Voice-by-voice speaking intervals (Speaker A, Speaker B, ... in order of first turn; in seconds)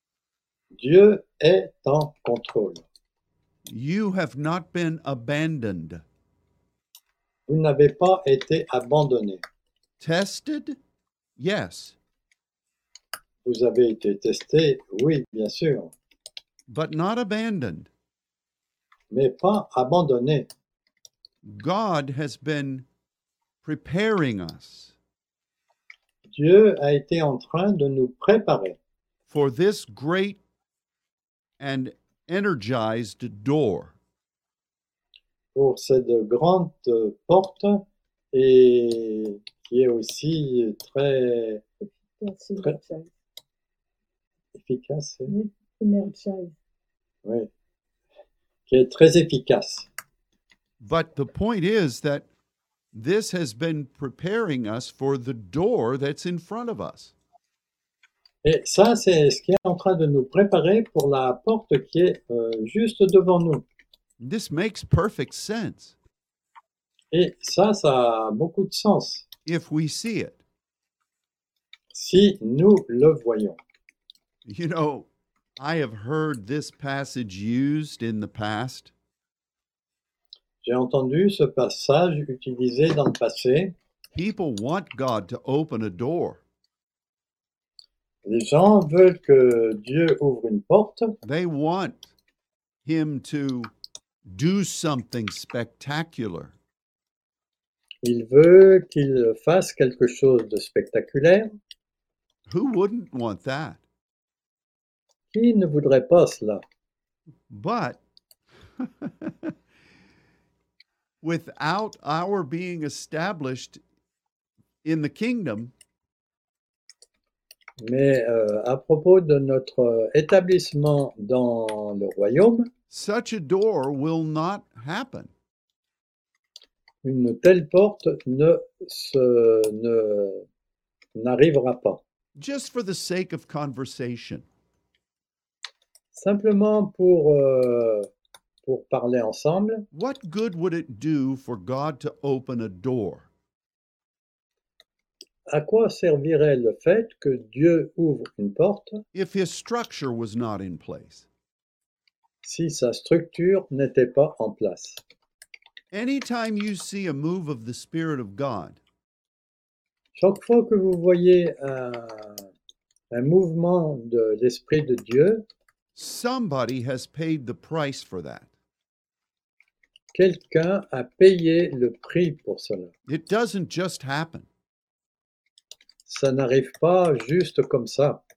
Speaker A: 0.7-2.8, 7.5-9.4, 13.4-15.9, 19.1-20.5, 26.3-28.8, 35.5-41.6, 44.5-45.3, 47.2-47.5, 48.7-49.9, 58.4-63.6, 67.1-69.3, 71.9-73.6, 80.6-83.7, 88.2-91.1, 98.0-101.5, 105.3-106.6, 117.8-122.7, 127.0-130.4, 131.1-132.0, 136.1-138.1, 138.6-139.9, 145.5-149.0, 152.4-155.0, 160.2-162.5, 163.1-165.4, 170.1-172.9, 176.1-178.2
Speaker B: 3.6-6.0, 10.0-10.8, 11.4-11.9, 16.7-17.9, 21.4-22.9, 23.6-24.9, 29.3-30.4, 31.6-33.9, 50.8-52.3, 52.9-57.1, 64.2-66.0, 69.5-70.4, 74.4-78.9, 84.1-86.4, 91.2-92.1, 92.8-93.7, 94.3-96.5, 102.5-103.8, 107.5-108.0, 108.8-109.5, 111.2-113.8, 114.8-115.7, 122.9-125.3, 132.4-134.4, 139.9-143.3, 149.1-151.3, 155.9-158.8, 165.9-168.5, 173.1-174.5
Speaker C: 41.8-43.1, 45.3-46.5